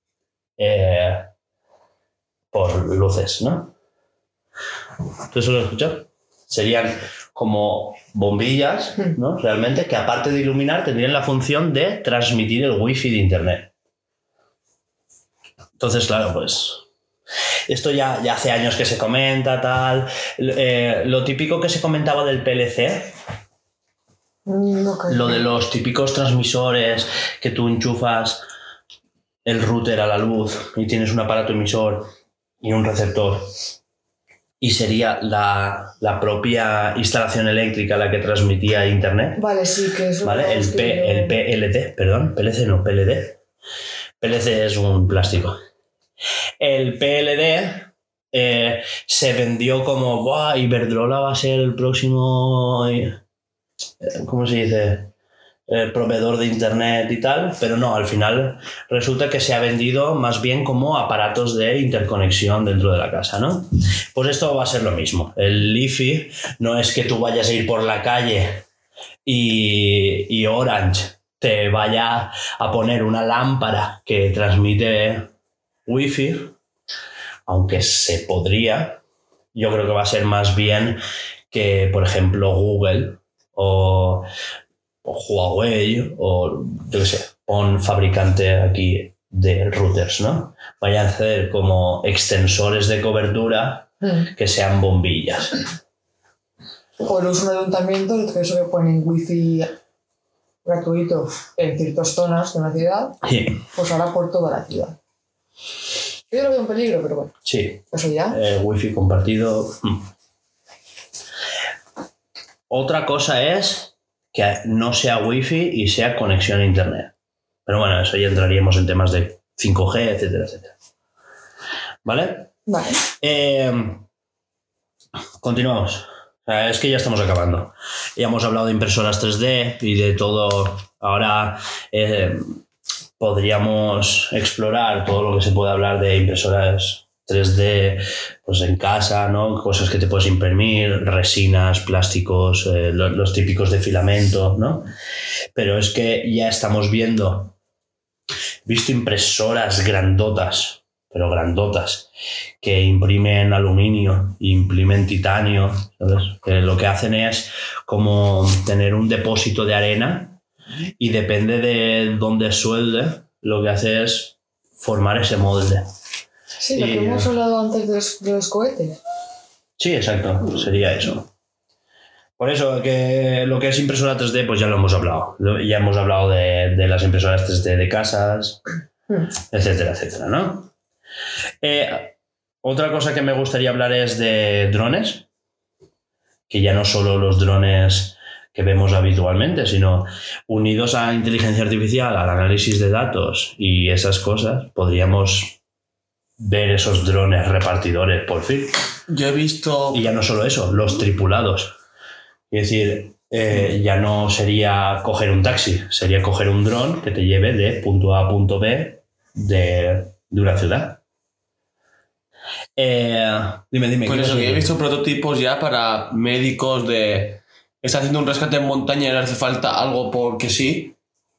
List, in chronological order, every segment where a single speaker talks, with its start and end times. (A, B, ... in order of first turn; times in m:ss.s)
0:00.6-0:01.3 A
0:02.5-0:03.7 A
0:05.3-0:13.7 A
0:15.8-0:16.8 A
0:17.7-0:23.1 A
0:24.4-0:25.4 B
0:25.1-0:28.4 A
0:29.4-0:32.1 A
0:32.6-0:33.5 A
0:34.6-0:39.4 A
0:39.4-0:41.4 B
0:40.2-0:43.4 A
0:44.2-0:45.6 A
0:46.6-0:53.2 A
0:54.0-0:55.1 A
0:55.7-1:08.6 A
1:09.2-1:15.3 A
1:15.9-1:16.6 A
1:17.5-1:19.0 A
1:19.5-1:21.0 A
1:21.5-1:24.3 A
1:25.0-1:35.6 A
1:34.0-1:34.3 B
1:37.0-1:39.7 B
1:40.6-1:43.2 B
1:43.2-1:43.6 A
1:43.7-1:45.0 B
1:46.3-1:47.3 B
1:47.4-1:50.1 A
1:47.9-1:48.4 B
1:52.7-1:57.1 A
1:57.6-2:00.7 A
2:02.0-2:02.5 A
2:02.7-2:03.0 B
2:03.2-2:04.0 A
2:05.4-2:12.6 A
2:13.2-2:24.9 A
2:25.6-2:27.6 A
2:28.6-2:32.1 A
2:32.6-2:40.4 A
2:41.0-2:45.9 A
2:46.6-2:49.0 B
2:46.8-2:47.3 A
2:49.8-2:51.3 A
2:52.4-2:58.6 A
2:59.5-3:00.7 A
3:01.6-3:05.2 A
3:06.5-3:15.6 A
3:16.4-3:18.8 A
3:19.1-3:20.1 C
3:19.9-3:21.7 A
3:22.5-3:31.0 A
3:32.8-3:34.7 A
3:34.0-3:41.0 C